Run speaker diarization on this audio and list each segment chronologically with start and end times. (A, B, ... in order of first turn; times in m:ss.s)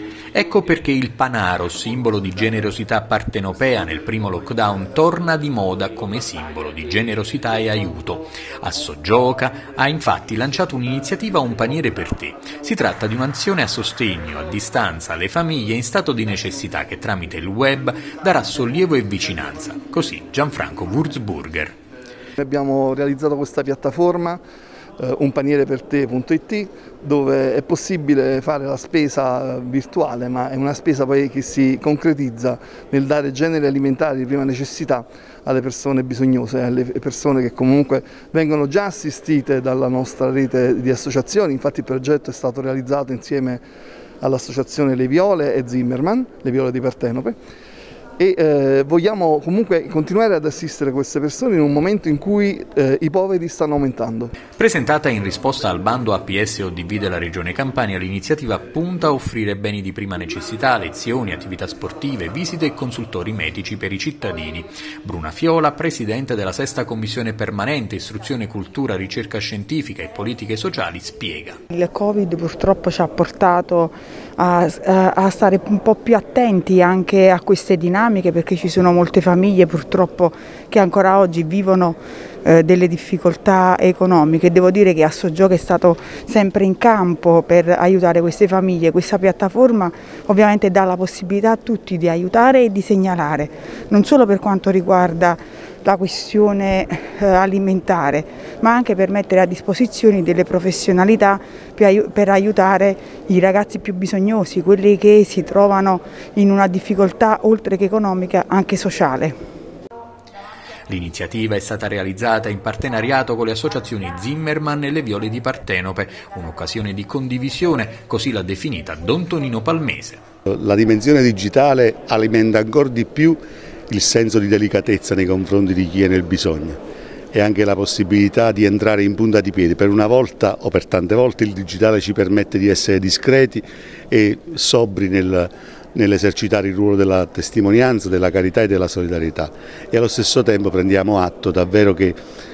0:00.3-0:21.7 A
0:22.4-0:24.4 B
0:25.0-0:43.6 B
0:44.2-0:47.4 B
0:48.2-0:54.3 B
0:54.5-1:11.6 A
1:11.7-1:49.3 C
1:50.9-2:00.2 A
2:00.5-2:06.8 D
2:07.3-2:22.2 D